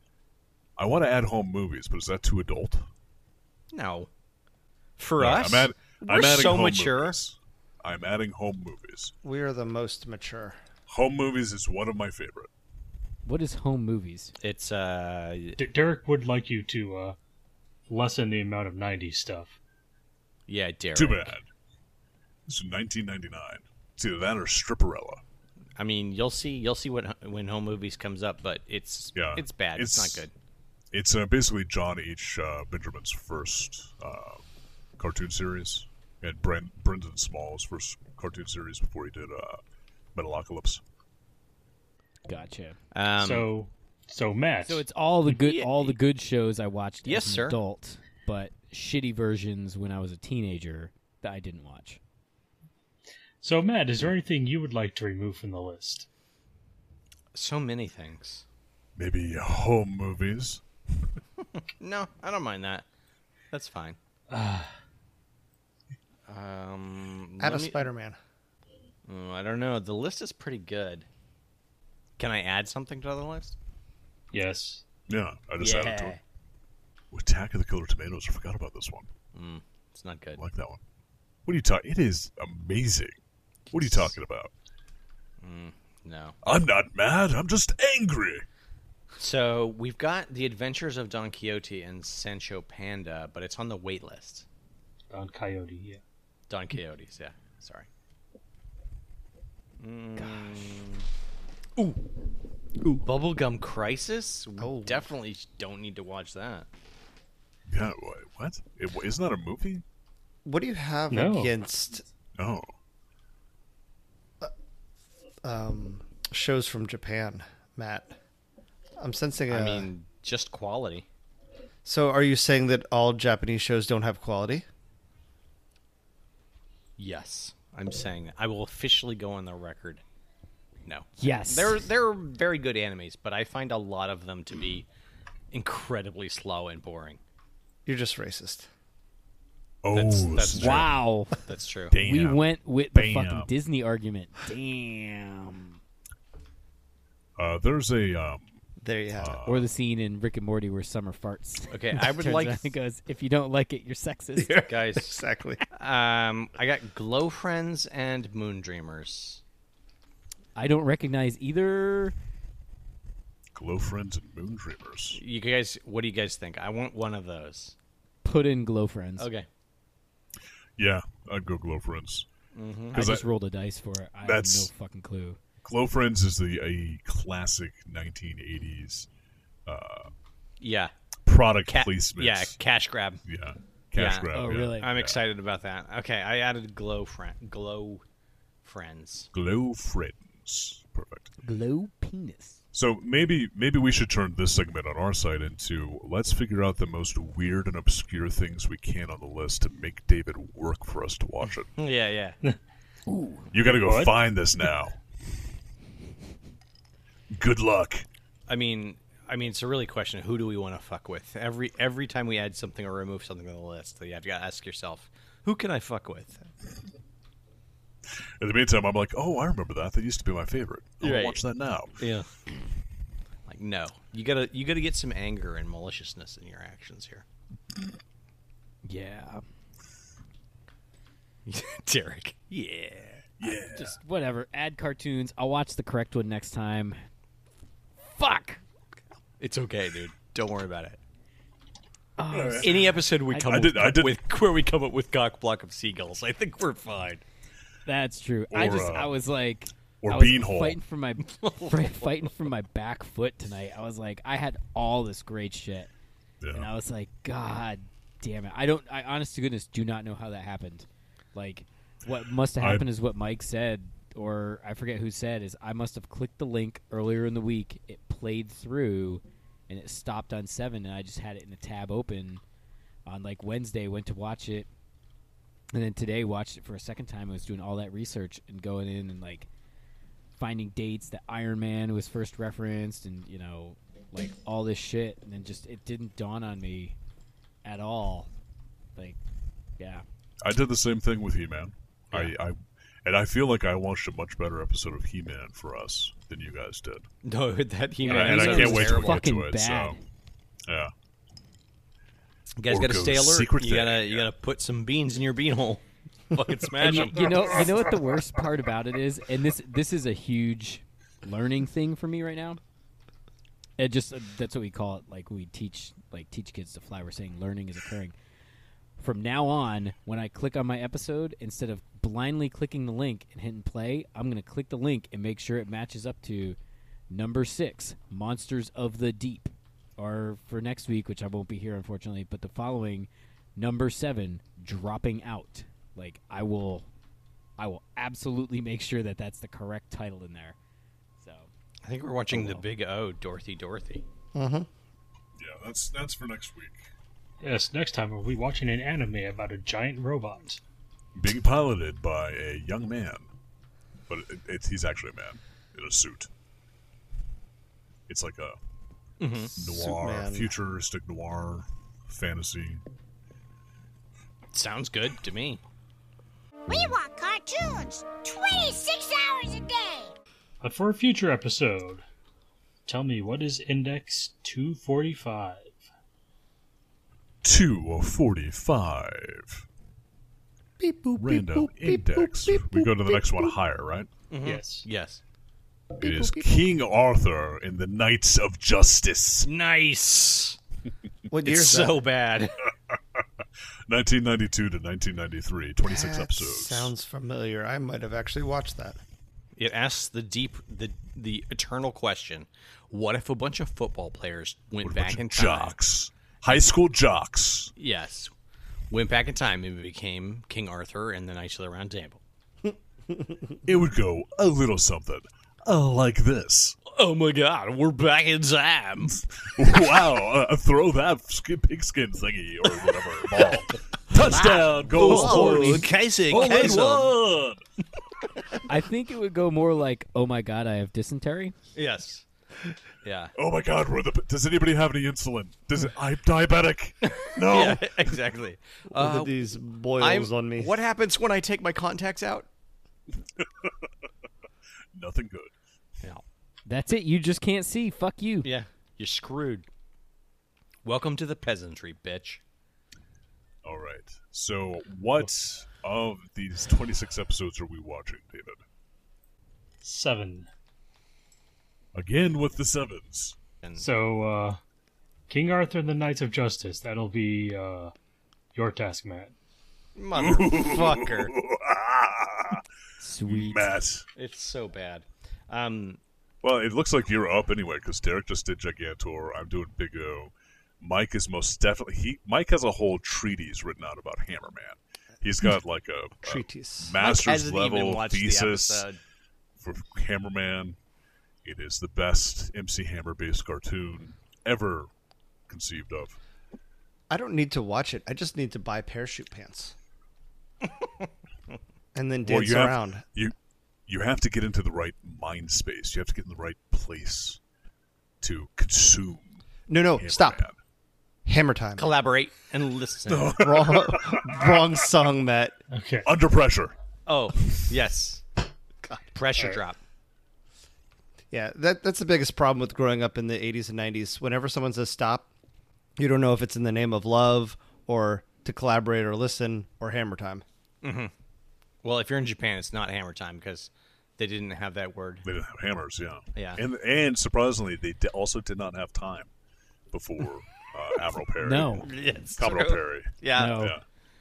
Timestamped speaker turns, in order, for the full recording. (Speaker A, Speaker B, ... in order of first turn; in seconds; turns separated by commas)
Speaker A: 0.8-2.9, Speaker B: 3.7-4.1, Speaker B: 5.0-7.2, Speaker A: 5.2-9.1, Speaker C: 9.2-10.6, Speaker A: 10.9-12.5, Speaker D: 13.2-14.3, Speaker B: 14.4-15.6, Speaker E: 15.6-17.2, Speaker E: 17.9-19.6, Speaker B: 20.5-21.4, Speaker A: 20.9-21.5, Speaker A: 22.5-25.2, Speaker B: 25.8-30.3, Speaker A: 29.1-30.2, Speaker A: 30.9-34.4, Speaker A: 35.0-39.6, Speaker A: 40.1-40.8, Speaker D: 42.3-42.8, Speaker B: 42.9-43.5, Speaker E: 43.2-44.8, Speaker D: 44.6-52.0, Speaker B: 45.3-46.0, Speaker B: 47.0-47.6, Speaker E: 53.4-56.1, Speaker B: 57.3-58.4, Speaker A: 59.0-60.6, Speaker B: 61.6-62.8, Speaker B: 63.5-64.0, Speaker E: 64.3-64.7, Speaker B: 66.3-67.9, Speaker C: 67.4-68.2, Speaker B: 69.0-71.1, Speaker B: 72.2-73.5, Speaker E: 74.3-74.8, Speaker A: 75.1-76.2, Speaker B: 75.6-76.2, Speaker A: 77.1-79.1, Speaker B: 79.3-80.4, Speaker A: 80.4-80.8, Speaker A: 81.5-83.2, Speaker A: 83.7-84.5, Speaker B: 83.7-84.2, Speaker B: 85.4-86.4, Speaker A: 86.4-88.5, Speaker B: 89.2-94.5, Speaker E: 95.1-96.0, Speaker B: 96.5-97.9, Speaker B: 99.8-101.0, Speaker D: 100.2-100.7, Speaker B: 101.8-102.0, Speaker B: 103.0-106.7, Speaker C: 104.6-105.1, Speaker A: 107.7-109.8, Speaker C: 110.4-112.1, Speaker E: 111.1-111.6, Speaker A: 112.4-112.7, Speaker C: 115.4-118.2, Speaker C: 119.0-119.9, Speaker B: 119.5-121.0, Speaker C: 121.8-124.6, Speaker B: 127.0-130.0, Speaker B: 130.8-134.8, Speaker D: 131.2-131.8, Speaker B: 135.5-137.2, Speaker C: 137.8-138.7, Speaker A: 139.8-141.0, Speaker B: 139.9-142.0, Speaker D: 140.5-141.4, Speaker A: 141.9-143.5, Speaker D: 141.9-145.8, Speaker A: 147.4-148.6, Speaker C: 148.8-149.4, Speaker A: 149.2-149.7, Speaker D: 149.4-154.6, Speaker B: 151.7-152.7, Speaker C: 154.4-155.6, Speaker B: 154.6-155.2, Speaker B: 155.7-159.4, Speaker D: 160.6-162.1, Speaker A: 163.5-165.2, Speaker B: 165.1-167.7, Speaker D: 168.2-169.3, Speaker B: 169.2-169.5, Speaker A: 170.8-172.3, Speaker B: 172.5-173.0, Speaker A: 172.9-173.3, Speaker D: 172.9-175.4, Speaker A: 174.2-174.7, Speaker A: 175.6-179.1, Speaker A: 179.7-180.1, Speaker B: 180.6-180.9, Speaker A: 181.2-182.6, Speaker B: 181.7-183.2, Speaker A: 183.2-185.2, Speaker B: 183.9-188.0, Speaker D: 184.3-184.9, Speaker B: 188.6-189.3, Speaker A: 189.3-191.3, Speaker D: 191.4-192.6, Speaker A: 192.7-201.7, Speaker B: 201.7-202.4, Speaker D: 203.1-203.5, Speaker A: 203.5-205.0, Speaker E: 203.7-204.2, Speaker A: 207.3-208.1, Speaker B: 208.5-216.5, Speaker A: 218.4-222.0, Speaker B: 221.0-221.4, Speaker B: 222.0-222.3, Speaker B: 223.4-227.2, Speaker D: 228.8-229.4, Speaker B: 231.4-233.2, Speaker A: 233.4-234.0, Speaker D: 233.4-237.0, Speaker D: 238.2-238.6, Speaker B: 239.4-241.0, Speaker D: 242.2-243.7, Speaker A: 242.3-244.2, Speaker B: 242.6-247.2, Speaker D: 247.8-255.9, Speaker A: 248.5-249.2, Speaker A: 250.0-250.8, Speaker B: 251.2-252.1, Speaker A: 256.4-256.7, Speaker D: 256.5-272.4, Speaker A: 262.6-262.9, Speaker D: 273.1-274.7, Speaker D: 275.7-279.5, Speaker D: 280.4-287.0, Speaker D: 287.6-288.3, Speaker D: 289.8-290.0, Speaker A: 290.4-297.1, Speaker B: 297.2-299.3, Speaker D: 298.0-300.0, Speaker A: 298.0-300.0, Speaker A: 300.7-300.9, Speaker B: 302.6-307.7, Speaker A: 302.7-304.3, Speaker D: 306.8-312.6, Speaker D: 313.8-318.1, Speaker D: 319.0-326.6, Speaker D: 327.1-336.9, Speaker D: 337.6-340.6, Speaker D: 341.2-341.5, Speaker B: 341.8-344.0, Speaker D: 342.3-342.6, Speaker C: 344.3-344.7, Speaker A: 345.4-346.8, Speaker E: 347.4-350.6, Speaker A: 351.1-353.3, Speaker A: 354.1-356.3, Speaker A: 358.1-358.6, Speaker B: 359.2-359.5, Speaker A: 359.5-362.8, Speaker C: 359.6-360.5, Speaker B: 364.5-365.6, Speaker F: 366.7-370.1, Speaker E: 370.6-372.0, Speaker E: 372.9-375.8, Speaker A: 377.4-379.6, Speaker C: 380.8-383.5, Speaker A: 381.1-384.1, Speaker B: 384.3-385.2, Speaker E: 384.4-384.9, Speaker A: 386.0-389.5, Speaker C: 386.0-386.5, Speaker B: 389.4-390.6, Speaker C: 391.3-392.0, Speaker B: 391.4-392.6, Speaker A: 393.9-396.9, Speaker C: 395.8-399.0, Speaker B: 399.6-405.8, Speaker A: 404.8-407.7, Speaker B: 407.8-408.3, Speaker B: 408.9-412.2, Speaker C: 413.1-413.4, Speaker A: 413.6-416.8, Speaker B: 416.9-419.2, Speaker A: 419.2-427.6, Speaker B: 422.8-427.2, Speaker D: 424.9-426.9, Speaker D: 428.7-431.5, Speaker B: 431.7-432.2, Speaker B: 433.0-433.3, Speaker A: 433.3-438.1, Speaker B: 437.1-442.5, Speaker C: 438.9-440.8, Speaker A: 443.4-443.7, Speaker A: 444.9-445.5, Speaker D: 446.6-448.5, Speaker B: 448.4-449.7, Speaker B: 450.8-452.4, Speaker A: 453.6-458.6, Speaker E: 459.8-460.5, Speaker A: 461.9-463.4, Speaker E: 463.8-464.6, Speaker E: 465.3-467.9, Speaker E: 468.5-469.3, Speaker B: 469.9-471.3, Speaker A: 470.1-472.6, Speaker D: 473.0-473.8, Speaker A: 473.2-474.0, Speaker B: 474.1-476.0, Speaker A: 476.4-488.9, Speaker C: 486.2-487.0, Speaker B: 487.0-489.0, Speaker A: 489.6-490.8, Speaker A: 491.4-494.9, Speaker A: 495.5-496.2, Speaker C: 497.1-499.7, Speaker C: 501.9-503.0, Speaker A: 502.2-503.3, Speaker A: 503.9-507.4, Speaker A: 508.2-509.4, Speaker C: 509.7-510.4, Speaker A: 509.9-510.6, Speaker C: 511.2-511.9, Speaker B: 511.8-513.4, Speaker A: 513.1-514.4, Speaker C: 513.3-515.6, Speaker E: 515.7-516.1, Speaker A: 516.0-516.7, Speaker B: 517.0-518.2, Speaker B: 519.1-519.8, Speaker E: 519.4-519.6, Speaker C: 521.3-525.3, Speaker C: 526.0-530.4, Speaker B: 530.8-531.1, Speaker B: 531.8-535.3, Speaker A: 535.2-539.3, Speaker B: 536.3-536.6, Speaker A: 539.9-543.8, Speaker D: 541.4-541.9, Speaker B: 541.8-543.7, Speaker D: 543.3-543.8